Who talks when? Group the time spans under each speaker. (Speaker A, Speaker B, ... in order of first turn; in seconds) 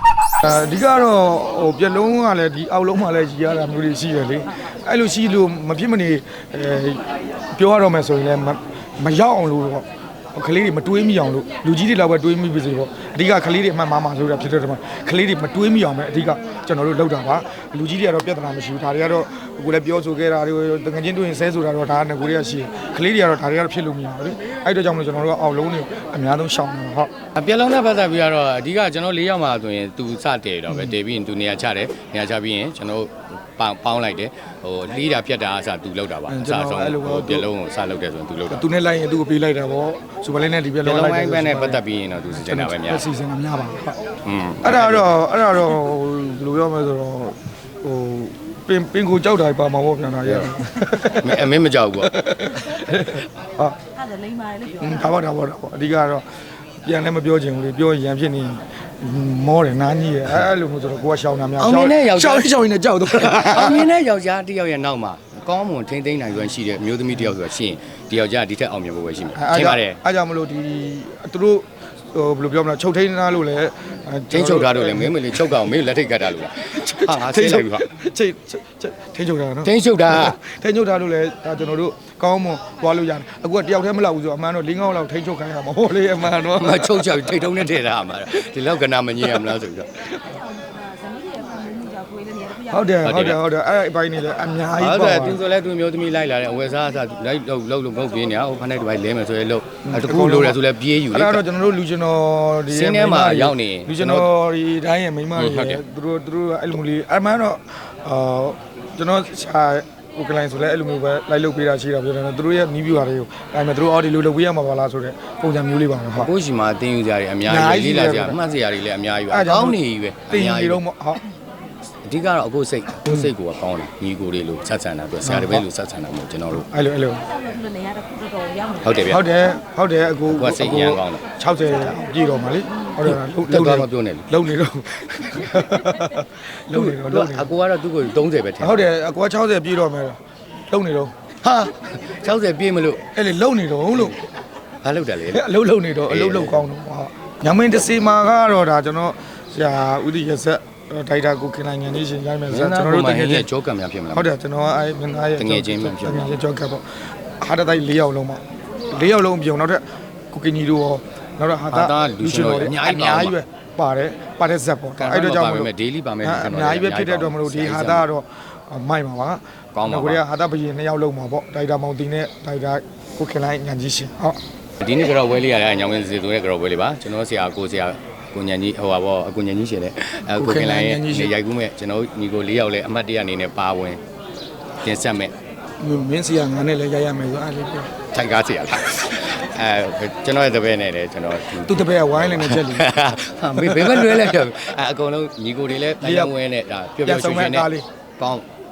Speaker A: 0.4-27.1, 36.3-37.5, 38.5-41.8, 42.3-44.0, 44.6-51.5, 52.0-53.8, 54.8-56.3, 56.8-63.9, 69.3-75.7, 76.6-87.3, 92.5-95.4, 99.8-116.3, 117.5-118.4, 119.3-121.2, 125.2-125.7, 126.5-127.3, 129.1-137.5, 138.6-140.2, 140.7-141.1, 143.1-144.2, 145.3-153.5, 154.1-156.8, 157.4-165.7, 166.2-174.4, 180.4-181.3, 185.8-187.9, 191.6-192.9, 193.6-194.4, 196.0-196.3, 197.0-197.9
Speaker B: 27.4-38.6, 40.8-43.0, 44.2-45.2, 50.2-52.1, 61.6-70.0, 74.3-77.9, 79.7-80.4, 86.3-90.0, 93.0-93.5, 94.8-101.5, 102.7-104.3, 105.3-105.8, 116.2-120.8, 122.0-126.7, 128.8-129.2, 130.3-131.2, 133.0-134.3, 136.7-138.9, 141.4-143.0, 144.8-145.5, 146.1-146.7, 152.5-154.3, 155.4-156.3, 161.7-163.4, 165.0-168.1, 169.7-170.2, 174.8-184.0, 184.8-185.3, 188.1-198.4
Speaker C: 54.1-54.8, 90.6-92.6, 127.5-128.8